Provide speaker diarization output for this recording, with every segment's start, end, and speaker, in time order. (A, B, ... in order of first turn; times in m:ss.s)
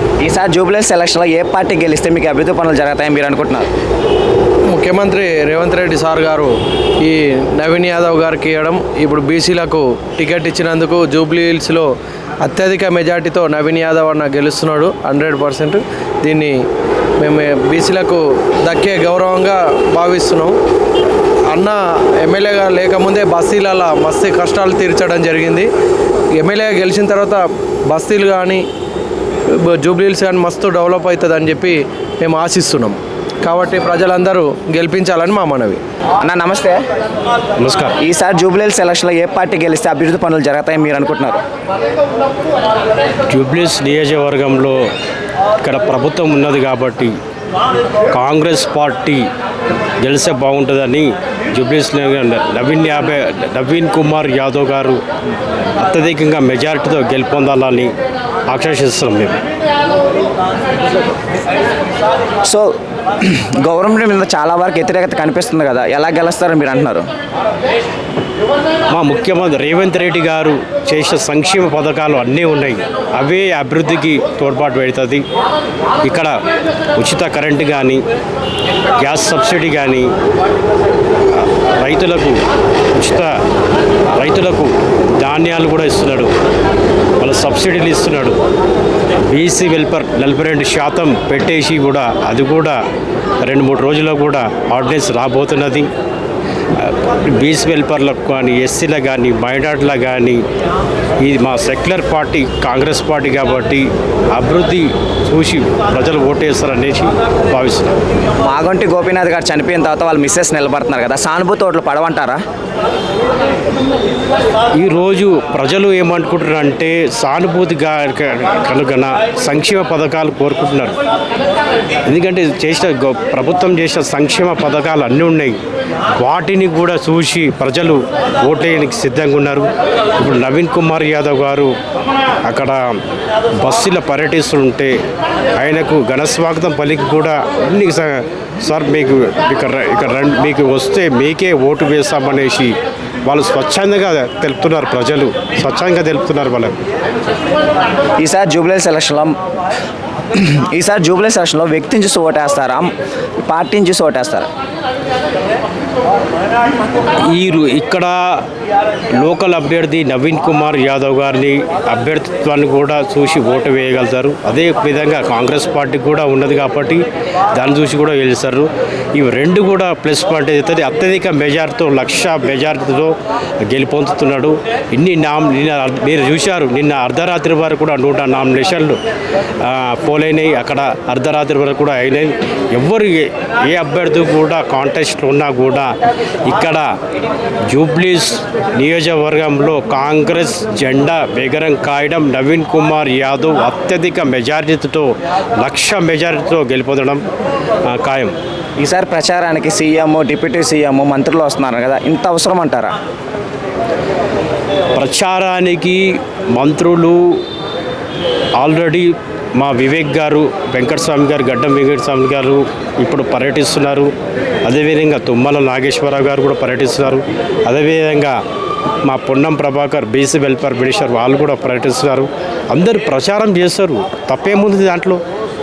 0:00.2-0:03.7 A
0:04.7-0:11.9 B
0:12.4-0:16.6 B
0:17.2-0:20.5 B
0:21.5-0:25.7 B
0:26.3-0:28.6 B
0:29.5-0:35.8 B
0:36.2-0:36.8 A
0:37.6-0:38.0 C
0:38.0-0:41.4 A
0:43.3-0:44.8 C
0:45.6-0:47.2 C
0:48.1-0:49.3 C
0:50.0-0:55.0 C
0:55.8-0:57.9 C
0:58.5-0:59.4 C
1:03.2-1:07.0 A
1:08.9-1:15.2 C
1:16.0-1:16.3 C
1:17.0-1:18.0 C
1:19.0-1:20.1 C
1:21.3-1:22.4 C
1:23.0-1:23.3 C
1:24.2-1:26.3 C
1:27.2-1:28.4 C
1:29.3-1:32.8 C
1:33.4-1:35.9 C
1:36.8-1:40.4 C
1:41.2-1:48.0 C
1:48.4-1:52.4 A
1:54.8-2:01.0 C
2:02.1-2:05.6 C
2:06.2-2:09.7 C
2:10.2-2:11.7 C
2:12.4-2:13.0 C
2:13.6-2:15.0 C
2:15.6-2:26.8 C
2:28.2-2:29.4 A
2:30.4-2:32.9 A
2:33.5-2:34.5 A
2:37.3-2:38.4 C
2:39.2-2:59.0 C
2:59.6-3:06.0 C
3:06.5-3:06.9 C
3:07.7-3:17.2 C
3:17.9-3:18.4 C
3:18.8-3:23.0 A
3:25.0-3:27.4 C
3:28.6-3:34.1 C
3:34.6-3:38.4 C
3:39.0-3:45.2 C